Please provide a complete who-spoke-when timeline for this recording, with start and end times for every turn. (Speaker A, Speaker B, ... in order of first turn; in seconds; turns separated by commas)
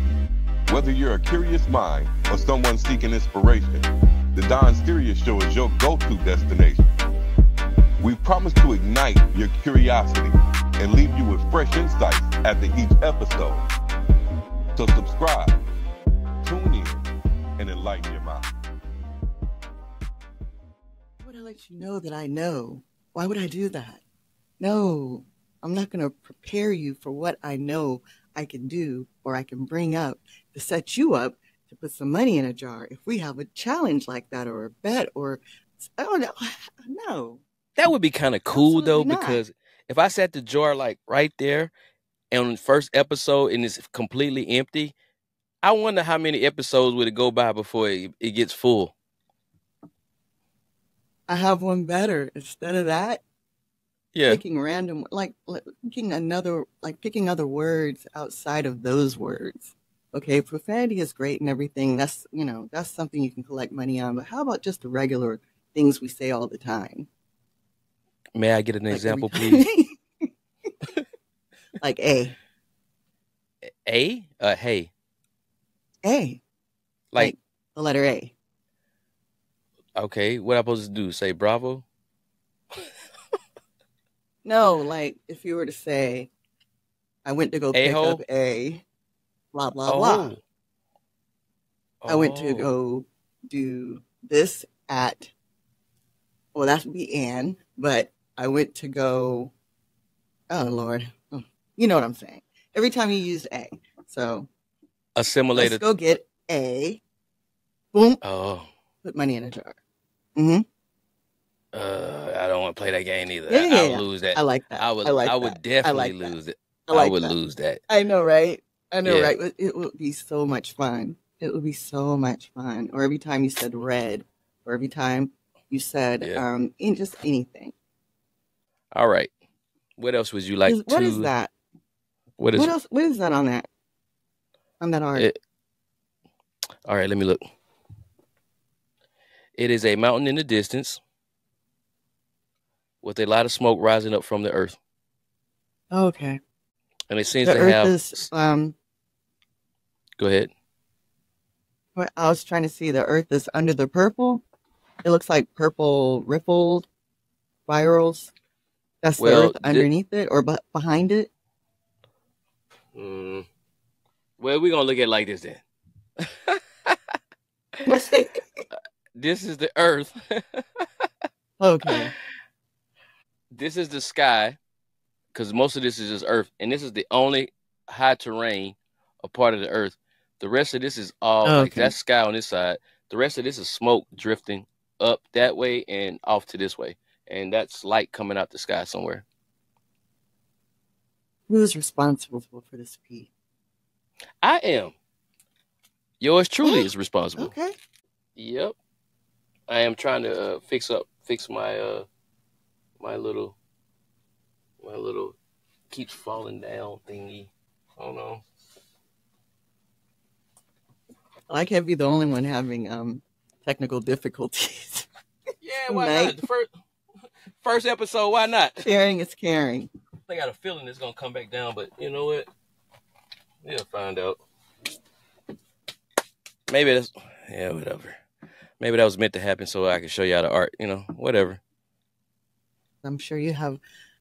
Speaker A: 0.7-6.9, Speaker A: 8.0-13.7, Speaker A: 14.8-15.6, Speaker A: 16.4-17.0, Speaker A: 17.6-18.5, Speaker B: 21.2-24.0, Speaker B: 24.6-37.4, Speaker C: 37.8-41.7, Speaker B: 38.5-39.4, Speaker C: 42.3-44.9, Speaker C: 45.6-48.9, Speaker B: 51.3-53.2, Speaker C: 54.1-54.4, Speaker B: 54.3-67.1, Speaker C: 68.3-69.7, Speaker B: 68.9-70.0, Speaker B: 71.8-72.3, Speaker C: 73.8-74.9, Speaker B: 76.0-76.4, Speaker B: 77.2-78.3, Speaker C: 80.0-81.8, Speaker B: 84.4-86.3, Speaker B: 87.2-88.8, Speaker C: 87.7-88.2, Speaker B: 89.5-90.4, Speaker C: 89.8-90.4, Speaker C: 92.0-92.7, Speaker B: 92.1-95.3, Speaker B: 96.5-99.5, Speaker B: 100.5-104.5, Speaker C: 105.2-105.8, Speaker B: 105.5-107.0, Speaker B: 107.9-108.2, Speaker C: 108.2-108.7, Speaker B: 109.0-109.8, Speaker B: 110.3-110.6, Speaker C: 111.7-117.8, Speaker B: 113.5-116.3, Speaker B: 116.9-117.4, Speaker B: 117.9-127.7, Speaker C: 119.0-119.3, Speaker C: 128.9-129.3, Speaker C: 130.0-131.3, Speaker B: 130.7-131.5, Speaker C: 132.4-132.7, Speaker B: 132.5-133.7, Speaker B: 134.8-135.3, Speaker C: 136.8-137.4, Speaker C: 139.6-141.0, Speaker C: 143.0-144.8, Speaker B: 145.9-146.4, Speaker C: 147.1-148.2, Speaker B: 147.4-148.8, Speaker C: 150.2-150.5, Speaker B: 151.9-154.4, Speaker B: 155.0-156.9, Speaker B: 157.7-158.3, Speaker B: 159.0-161.3, Speaker C: 159.2-159.9, Speaker C: 162.9-163.5, Speaker C: 164.4-165.6, Speaker C: 166.2-166.9, Speaker B: 167.8-168.6, Speaker C: 169.1-170.8, Speaker B: 171.6-172.1, Speaker C: 173.5-174.6, Speaker C: 175.3-189.2, Speaker B: 181.4-181.9, Speaker B: 191.5-193.3, Speaker C: 194.4-194.9, Speaker C: 196.2-197.5, Speaker B: 196.6-197.8, Speaker C: 198.3-198.8, Speaker C: 199.7-202.1, Speaker C: 203.0-203.6, Speaker C: 204.8-205.4, Speaker C: 205.9-208.4, Speaker B: 211.5-215.1, Speaker C: 215.6-216.7, Speaker B: 215.9-216.4, Speaker C: 217.6-218.8, Speaker B: 218.8-219.9, Speaker C: 220.3-222.5, Speaker C: 223.6-224.4, Speaker C: 226.7-228.2, Speaker C: 228.8-231.6, Speaker B: 233.0-233.8